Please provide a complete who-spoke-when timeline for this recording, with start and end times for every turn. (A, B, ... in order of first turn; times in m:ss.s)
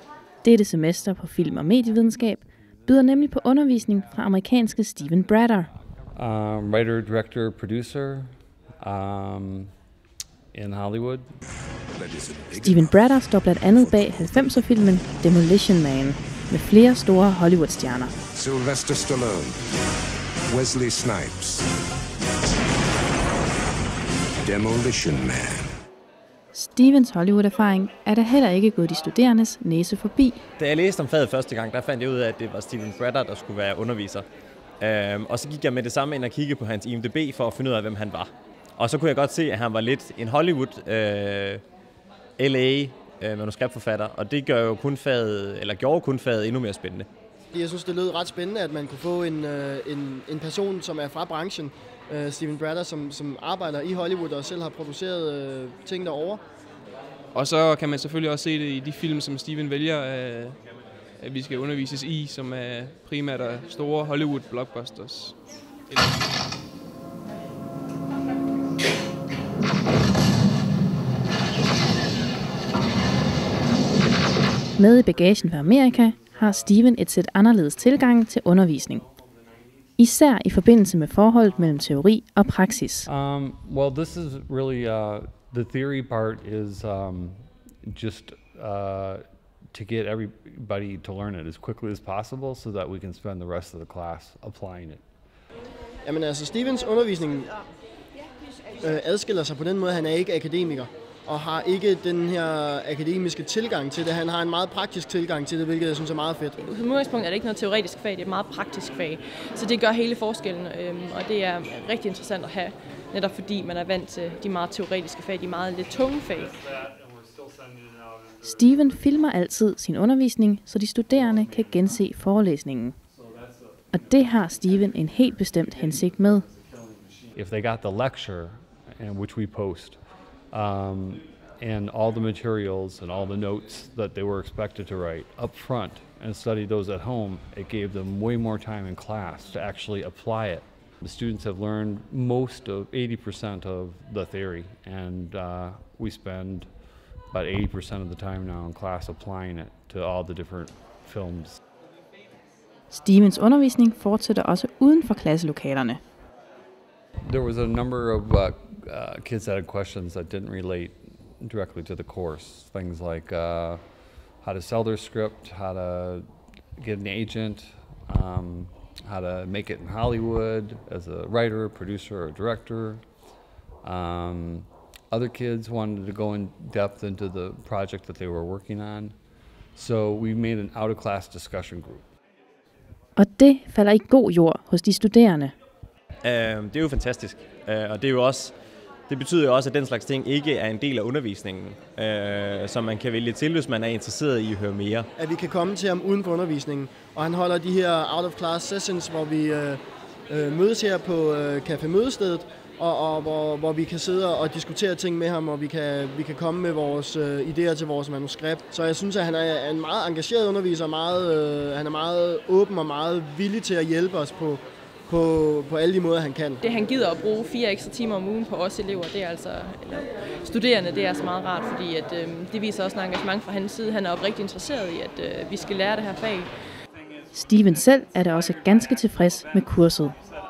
0:00.4-0:05.7 A
0:06.2-0:09.7 B
0:10.5-0:11.3 B
0:11.9-0:14.2 C
0:12.6-0:18.1 A
0:18.3-0:19.6 C
0:20.5-0:21.7 C
0:24.4-0:25.7 C
0:26.5-0:30.4 A
0:30.6-0:34.3 D
0:34.8-0:41.6 D
0:42.4-0:47.1 D
0:47.5-0:56.4 E
0:57.3-1:06.2 F
1:14.8-1:19.0 A
1:20.0-1:23.1 A
1:23.1-1:35.0 B
1:36.0-1:37.5 E
1:38.8-1:46.6 E
1:46.6-1:56.6 G
1:58.4-2:03.0 A
2:03.9-2:06.5 A
2:07.4-2:10.0 B
2:10.5-2:26.7 B
2:27.3-2:31.6 B
2:32.9-2:36.0 A
2:37.2-2:43.8 B
2:44.4-2:46.2 B
2:46.8-2:53.0 B
2:53.8-2:59.1 B
2:59.8-3:02.1 B
3:03.2-3:05.6 A
3:06.2-3:08.5 D
3:09.1-3:15.1 D
3:15.2-3:36.6 E
3:36.6-3:46.5 G
3:47.3-3:50.2 A